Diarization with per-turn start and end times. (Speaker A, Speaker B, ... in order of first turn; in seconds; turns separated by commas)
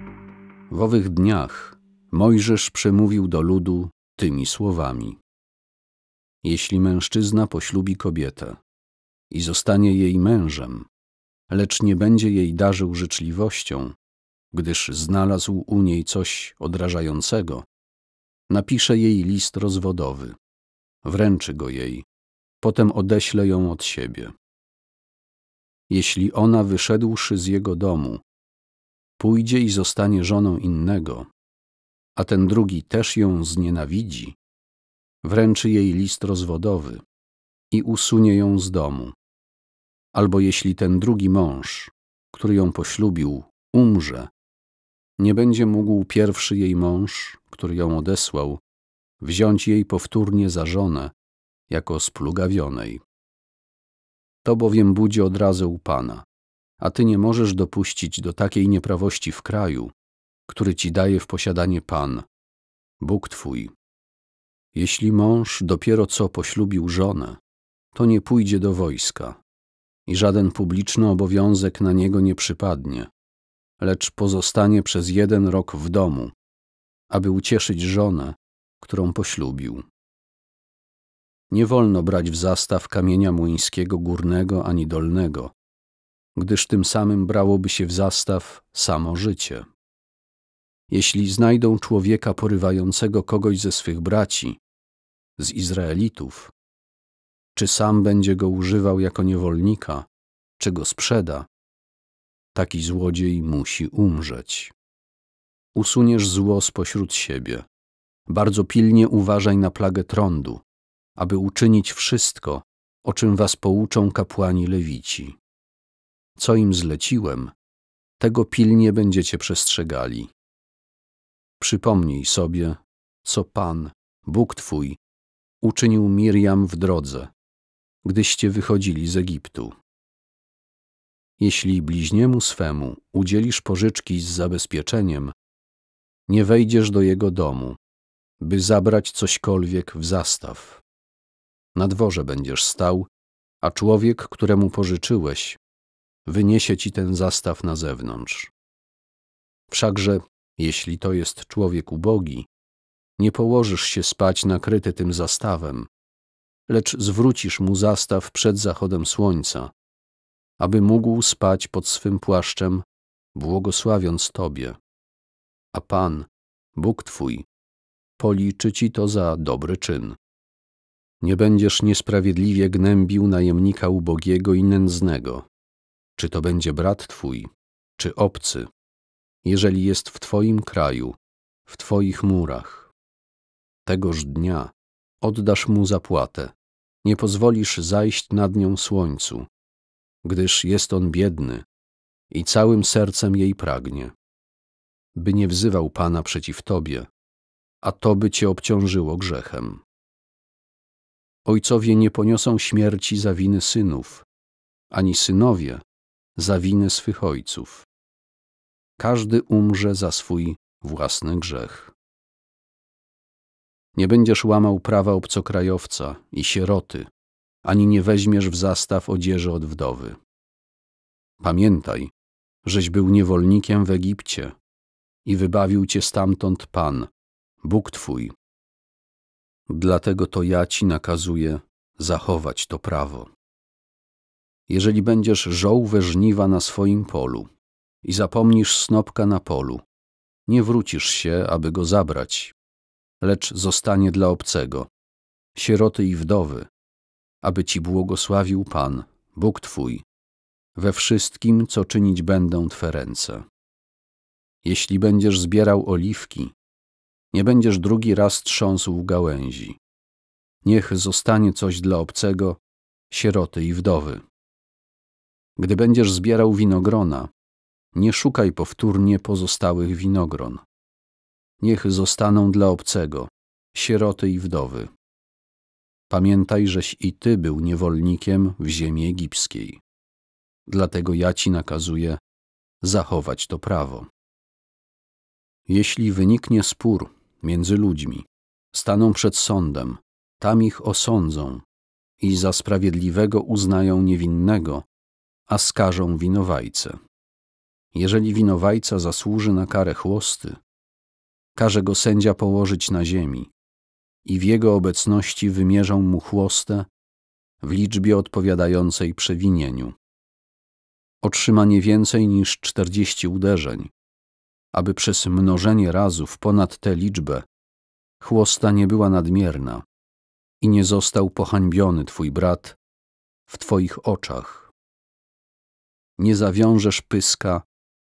Speaker A: 0.7-5.2, Speaker A: 6.4-8.6, Speaker A: 9.3-10.9, Speaker A: 11.5-13.9, Speaker A: 14.5-17.7, Speaker A: 18.5-20.4, Speaker A: 21.0-22.1, Speaker A: 22.6-24.3, Speaker A: 25.9-28.2, Speaker A: 29.2-31.3, Speaker A: 32.2-34.4, Speaker A: 35.2-37.0, Speaker A: 37.7-39.1, Speaker A: 40.1-44.3, Speaker A: 45.2-48.6, Speaker A: 49.2-51.1, Speaker A: 51.7-53.0, Speaker A: 54.4-56.3, Speaker A: 56.8-59.9, Speaker A: 60.5-62.3, Speaker A: 63.0-63.7, Speaker A: 64.7-67.4, Speaker A: 67.9-69.4, Speaker A: 70.1-73.1, Speaker A: 73.8-76.3, Speaker A: 77.1-79.9, Speaker A: 81.5-85.5, Speaker A: 86.3-89.7, Speaker A: 90.9-94.6, Speaker A: 95.4-96.5, Speaker A: 97.5-100.1, Speaker A: 100.6-101.5, Speaker A: 102.5-104.7, Speaker A: 105.8-107.7, Speaker A: 108.3-110.6, Speaker A: 111.2-115.4, Speaker A: 116.4-117.5, Speaker A: 118.2-120.3, Speaker A: 121.6-125.0, Speaker A: 125.6-127.3, Speaker A: 128.0-129.8, Speaker A: 131.4-135.3, Speaker A: 136.3-137.8, Speaker A: 138.4-140.8, Speaker A: 141.8-143.1, Speaker A: 143.6-145.6, Speaker A: 146.3-148.5, Speaker A: 149.7-152.5, Speaker A: 153.2-155.9, Speaker A: 156.7-159.7, Speaker A: 160.6-164.8, Speaker A: 165.7-167.5, Speaker A: 168.2-170.2, Speaker A: 171.2-175.5, Speaker A: 176.2-178.7, Speaker A: 179.4-182.9, Speaker A: 183.9-189.5, Speaker A: 190.2-191.7, Speaker A: 192.3-194.1, Speaker A: 195.2-197.1, Speaker A: 197.8-199.8, Speaker A: 201.5-204.3, Speaker A: 204.9-205.8, Speaker A: 206.4-207.9, Speaker A: 209.0-211.9, Speaker A: 213.9-217.1, Speaker A: 217.6-220.2, Speaker A: 221.4-222.1, Speaker A: 222.6-224.6, Speaker A: 225.2-227.1, Speaker A: 227.6-228.3, Speaker A: 229.7-233.3, Speaker A: 234.7-237.5, Speaker A: 238.0-239.8, Speaker A: 240.5-242.6, Speaker A: 243.2-244.9, Speaker A: 245.6-246.7, Speaker A: 247.4-250.1, Speaker A: 250.8-253.5, Speaker A: 254.6-256.6, Speaker A: 257.3-259.8, Speaker A: 260.6-264.2, Speaker A: 265.6-267.3, Speaker A: 267.9-270.6, Speaker A: 271.6-274.9, Speaker A: 276.1-279.8, Speaker A: 280.7-282.2, Speaker A: 282.8-284.1, Speaker A: 285.7-291.6, Speaker A: 292.2-294.9, Speaker A: 295.5-297.0, Speaker A: 297.9-300.6, Speaker A: 301.6-303.5, Speaker A: 304.2-306.9, Speaker A: 307.6-310.0, Speaker A: 311.2-313.9, Speaker A: 314.7-317.4, Speaker A: 318.2-319.9, Speaker A: 320.6-322.8, Speaker A: 323.5-324.7, Speaker A: 326.2-327.6